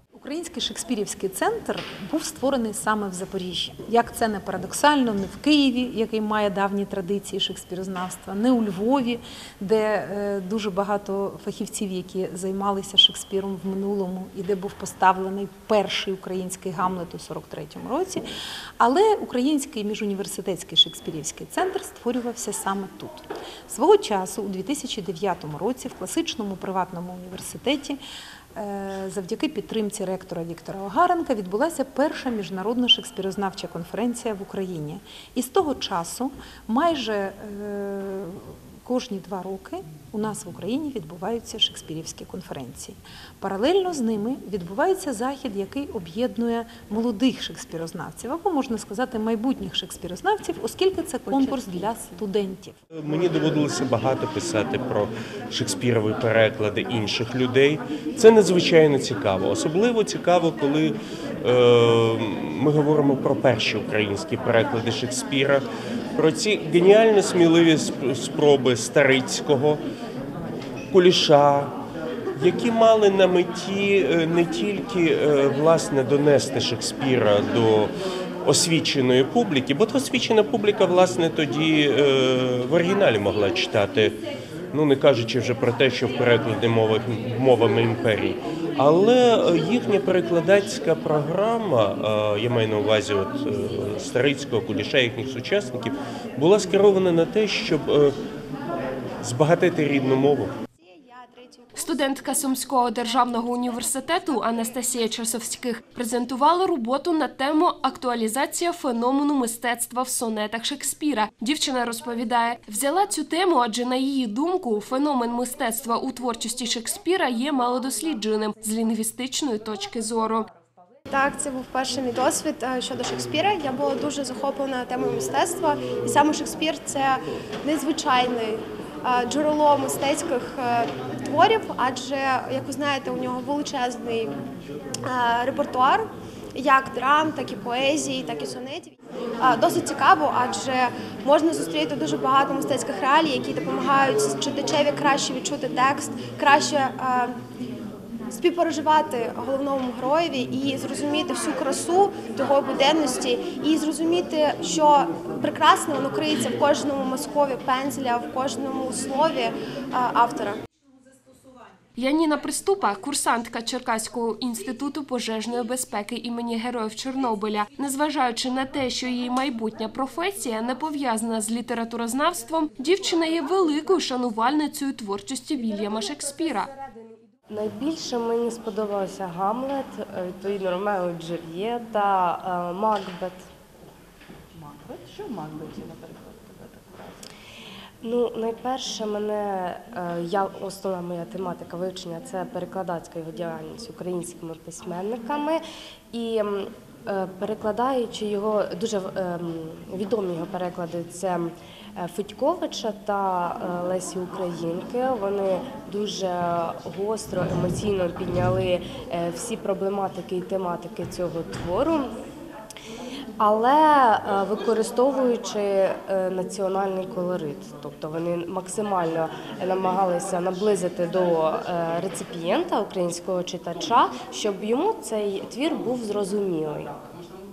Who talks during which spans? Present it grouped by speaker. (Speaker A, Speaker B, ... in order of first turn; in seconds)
Speaker A: 0.1-18.2, 18.8-28.0, 28.5-52.7
Speaker B: 51.2-52.0, 184.6-187.2
Speaker C: 52.9-69.8, 70.9-71.7, 72.3-77.9, 78.4-84.2, 84.7-98.1, 99.2-100.5
Speaker D: 100.8-102.3, 121.1-134.3, 135.1-147.4, 148.3-160.6
Speaker E: 101.8-120.5, 162.0-176.7
Speaker F: 177.5-183.4, 188.0-212.1, 213.4-226.9